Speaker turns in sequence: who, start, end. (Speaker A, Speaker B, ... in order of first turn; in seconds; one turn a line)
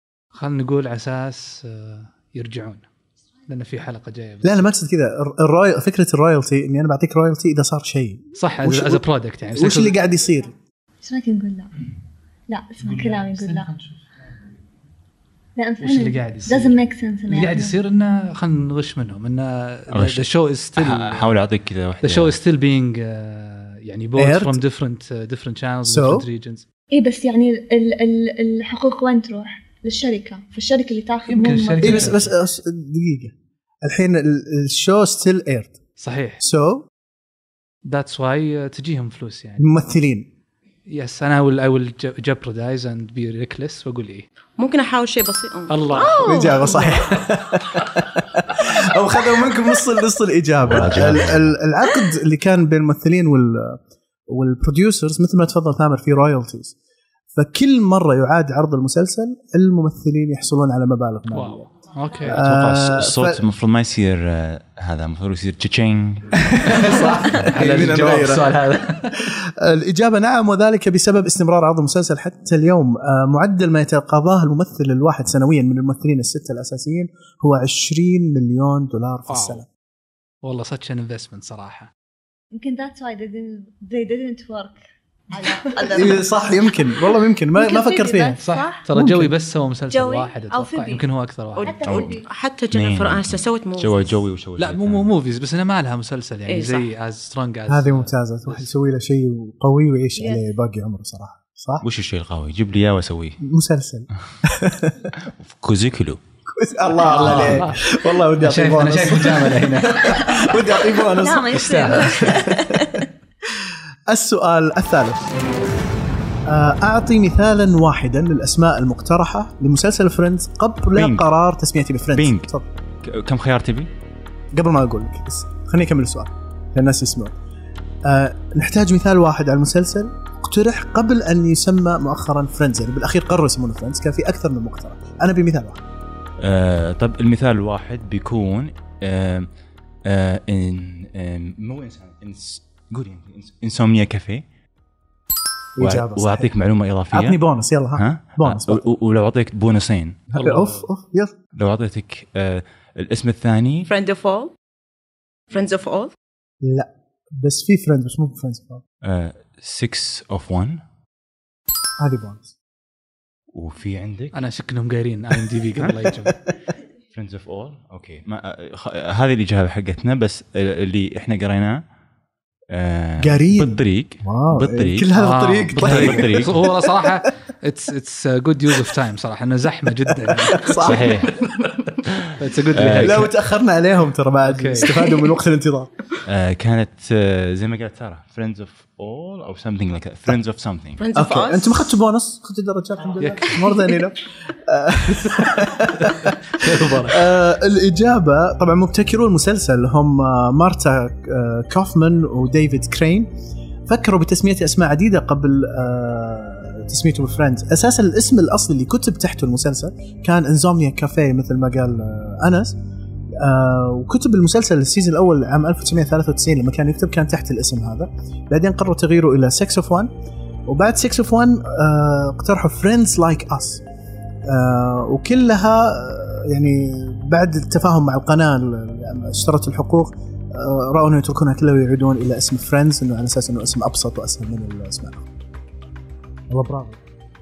Speaker A: 0.3-2.8
Speaker A: 3.5-4.7
Speaker B: 4.4-10.5
Speaker A: 8.4-10.0
Speaker C: 11.0-11.7
Speaker C: 12.5-13.7
Speaker A: 12.8-14.0
Speaker C: 15.6-17.7
Speaker A: 15.8-16.8
Speaker A: 17.3-21.3
Speaker D: 19.9-22.4
Speaker A: 22.0-26.6
Speaker B: 24.2-24.6
Speaker B: 25.9-26.3
Speaker C: 26.9-32.1
Speaker A: 31.3-32.3
Speaker B: 31.8-35.7
Speaker A: 36.0-36.4
Speaker B: 36.4-36.9
Speaker A: 37.8-39.7
Speaker B: 39.6-40.3
Speaker A: 40.9-44.3
Speaker E: 44.6-46.8
Speaker A: 45.7-46.8
Speaker B: 46.2-56.7
Speaker D: 50.6-51.5
Speaker B: 57.3-61.7
Speaker A: 61.3-62.4
Speaker B: 62.2-63.4
Speaker D: 62.3-66.5
Speaker A: 66.5-69.3
Speaker B: 66.5-79.7
Speaker A: 79.3-79.6
Speaker A: 80.4-81.9
Speaker C: 82.5-84.8
Speaker C: 85.3-88.8
Speaker B: 85.9-88.4
Speaker A: 88.4-91.8
Speaker B: 88.9-89.3
Speaker C: 89.9-91.0
Speaker E: 91.5-94.1
Speaker C: 91.6-92.2
Speaker D: 91.8-95.1
Speaker A: 94.6-98.7
Speaker E: 96.5-96.9
Speaker B: 97.7-101.8
Speaker C: 100.2-100.5
Speaker D: 101.8-103.4
Speaker B: 103.4-105.1
Speaker D: 105.2-106.2
Speaker B: 106.5-113.0
Speaker A: 107.0-107.8
Speaker A: 108.4-110.4
Speaker C: 110.9-113.1
Speaker A: 111.5-112.4
Speaker B: 114.1-115.3
Speaker B: 116.5-122.7
Speaker D: 120.9-121.3
Speaker D: 122.1-122.5
Speaker D: 123.0-123.9
Speaker B: 124.5-127.3
Speaker B: 128.1-135.8
Speaker D: 136.4-139.5
Speaker D: 140.1-144.4
Speaker B: 145.8-146.5
Speaker D: 145.8-147.4
Speaker B: 147.1-148.8
Speaker D: 147.9-150.2
Speaker B: 150.3-151.3
Speaker A: 150.3-150.8
Speaker D: 151.5-153.9
Speaker E: 153.9-154.5
Speaker E: 155.5-156.1
Speaker B: 156.6-158.8
Speaker D: 159.0-160.8
Speaker B: 162.0-162.5
Speaker D: 163.5-164.3
Speaker A: 164.3-166.4
Speaker B: 165.8-166.5
Speaker D: 167.1-171.8
Speaker D: 172.7-175.1
Speaker B: 173.2-177.2
Speaker A: 175.1-181.3
Speaker D: 175.8-176.5
Speaker B: 180.2-181.3
Speaker D: 180.8-181.4
Speaker D: 182.0-183.3
Speaker A: 182.4-183.3
Speaker B: 182.9-185.9
Speaker A: 184.4-184.9
Speaker D: 186.2-191.0
Speaker E: 191.0-191.9
Speaker B: 191.1-203.3
Speaker A: 193.2-193.6
Speaker A: 195.2-197.3
Speaker B: 203.9-212.8
Speaker B: 213.4-220.1
Speaker B: 220.7-223.8
Speaker B: 224.5-235.3
Speaker B: 236.5-237.0